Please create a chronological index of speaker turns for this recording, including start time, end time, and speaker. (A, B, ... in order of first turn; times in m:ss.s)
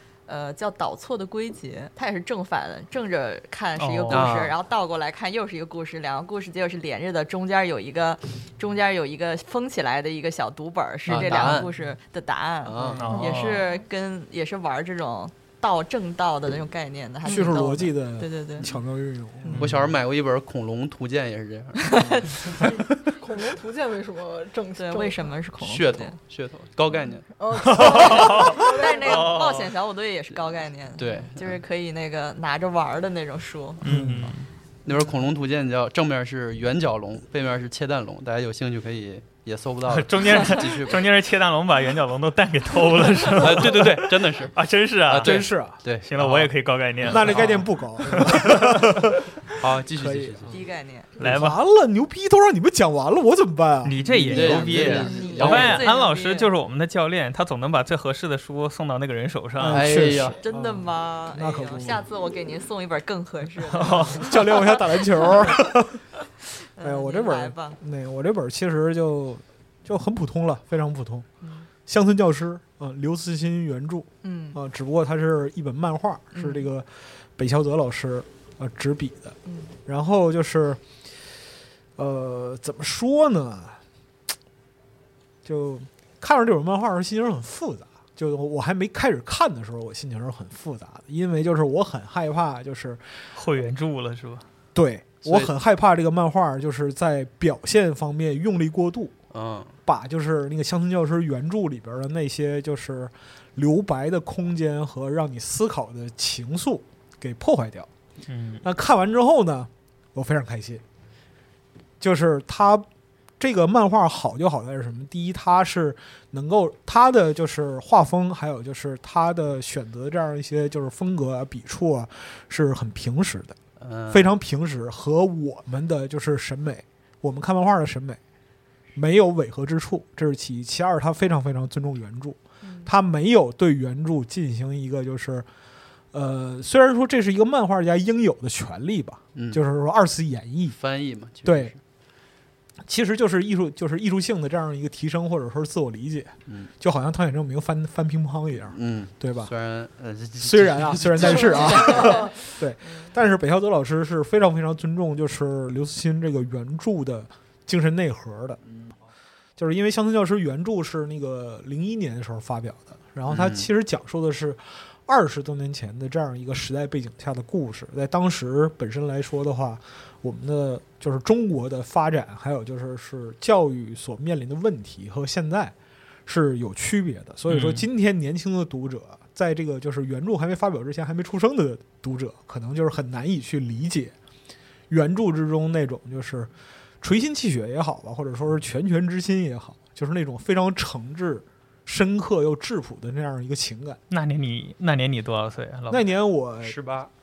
0:00.3-0:18.6 A
0:03.8-0:04.4 B
0:04.1-0:04.5 C
0:11.1-0:11.7 C
0:12.6-0:13.2 C
0:12.8-0:13.0 D
0:13.0-0:13.6 B
0:13.2-0:13.6 E
0:17.3-0:17.5 E
0:17.3-0:19.7 D
0:19.5-0:19.8 B
0:19.5-0:22.6 C
0:21.8-0:22.7 A
0:23.2-0:25.4 E
0:24.8-0:26.2 A
0:25.6-0:27.3 C
0:27.4-0:29.4 E
0:27.8-0:29.7 B
0:27.8-0:33.8 A
0:31.0-0:31.6 C
0:33.8-0:34.5 B
0:33.8-0:34.4 D
0:34.8-0:41.0 C
0:39.9-0:47.5 B
0:43.4-0:44.5 C
0:45.1-0:46.5 C
0:45.2-0:45.8 D
0:47.0-0:47.6 C
0:47.0-0:49.3 D
0:48.1-0:48.7 B
0:49.5-0:50.5 C
0:49.9-0:50.6 D
0:50.5-0:51.1 A
0:51.2-0:55.7 D
0:51.2-0:51.6 B
0:53.8-1:00.0 B
0:54.1-0:55.8 C
0:54.7-0:56.5 A
0:59.6-1:02.0 D
0:59.6-1:00.4 C
1:00.4-1:05.6 A
1:03.7-1:04.3 B
1:03.9-1:06.0 D
1:06.8-1:07.8 A
1:06.8-1:11.3 D
1:11.4-1:11.7 A
1:11.9-1:20.8 D
1:14.2-1:14.6 A
1:16.3-1:16.7 A
1:19.4-1:19.7 A
1:22.0-1:23.8 D
1:25.4-1:33.0 D
1:33.3-1:34.4 B
1:34.7-1:39.2 D
1:35.2-1:35.5 C
1:39.3-1:39.7 C
1:39.8-1:47.9 D
1:48.3-1:48.6 B
1:48.6-1:50.8 D
1:52.0-1:52.9 D
1:53.4-2:03.6 D
2:03.8-2:04.2 C
2:04.1-2:08.2 D
2:08.9-2:15.4 D
2:12.6-2:12.9 A
2:16.1-2:20.8 D
2:19.3-2:19.6 C
2:20.6-2:21.8 C
2:21.4-2:21.7 D
2:22.8-2:29.5 D
2:26.5-2:26.7 C
2:28.7-2:32.2 C
2:30.4-2:38.6 D
2:39.6-2:55.7 D
2:43.3-2:43.6 C
2:56.2-3:04.1 D
2:57.5-2:57.9 B
3:04.9-3:06.5 D
3:07.0-3:14.0 D
3:14.1-3:16.0 B
3:15.9-3:16.8 D
3:16.6-3:17.1 C